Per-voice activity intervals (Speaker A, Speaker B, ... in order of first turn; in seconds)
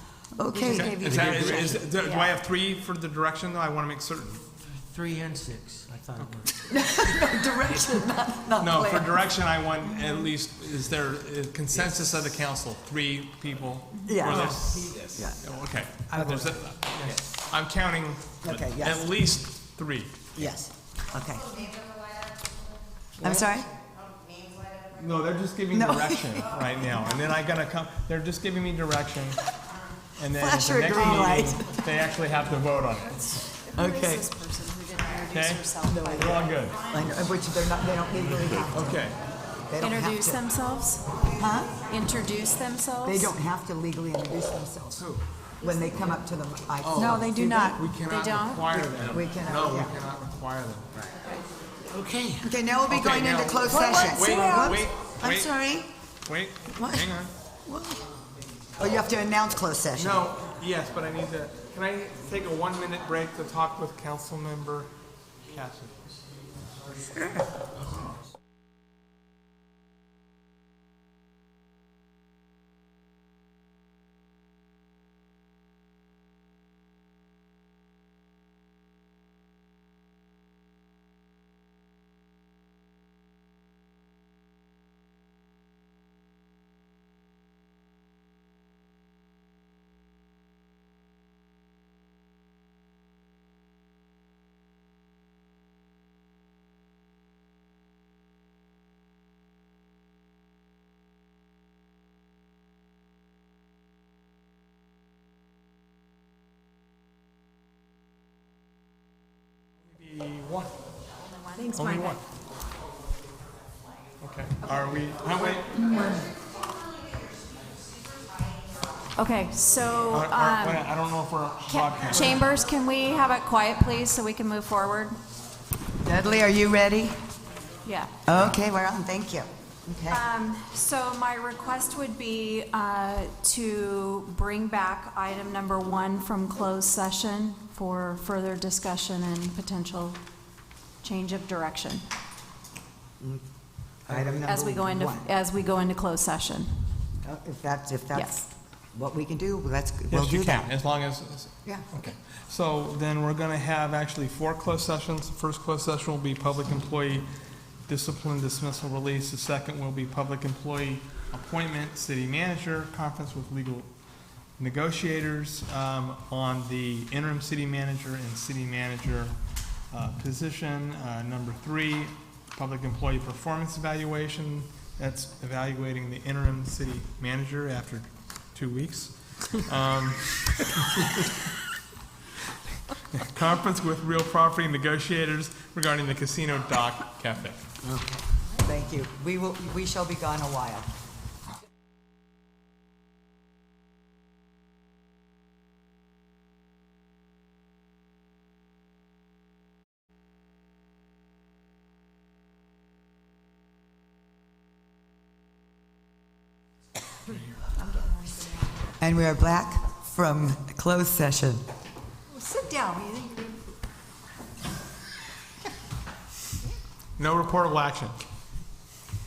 Speaker A: 0.3-1.8, 6.7-9.2, 14.1-15.4, 16.1-16.6, 18.4-19.1, 20.4-21.6, 23.2-23.7, 25.7-26.5, 30.4-31.9, 33.7-34.3, 35.9-39.1, 39.7-40.4, 41.3-41.7, 43.0-45.1, 45.6-47.8, 48.7-49.9, 52.4-55.9, 56.7-57.1, 57.7-58.0, 58.8-60.3, 67.0-67.5, 126.0-127.2, 128.2-130.2, 144.1-145.3, 147.2-150.7, 187.8-190.9, 209.0-211.6
Speaker B: 0.5-2.0, 4.7-6.7, 14.3-15.4, 46.8-47.3, 51.9-52.5, 53.9-54.8
Speaker C: 0.6-4.4, 8.6-20.3, 23.2-23.4, 24.9-29.4, 30.2-33.4, 35.3-36.8, 38.4-39.2, 47.7-50.9, 52.9-55.5, 56.3-57.3, 60.0-64.9, 65.5-66.1, 109.9-110.7, 111.7-112.2, 114.2-115.8, 120.1-122.4, 144.1-144.4, 150.1-157.3, 157.9-163.9, 164.6-169.4, 169.9-181.2, 183.0-187.6, 217.2-218.2
Speaker D: 2.0-2.3, 33.3-36.5, 39.8-41.0, 41.9-43.3, 47.0-48.8, 111.2-112.2, 115.7-116.2, 119.2-120.9, 121.7-125.2, 127.8-128.1, 130.1-140.2, 141.0-142.0, 144.4-146.9, 148.1-148.5, 207.8-208.9, 212.3-213.6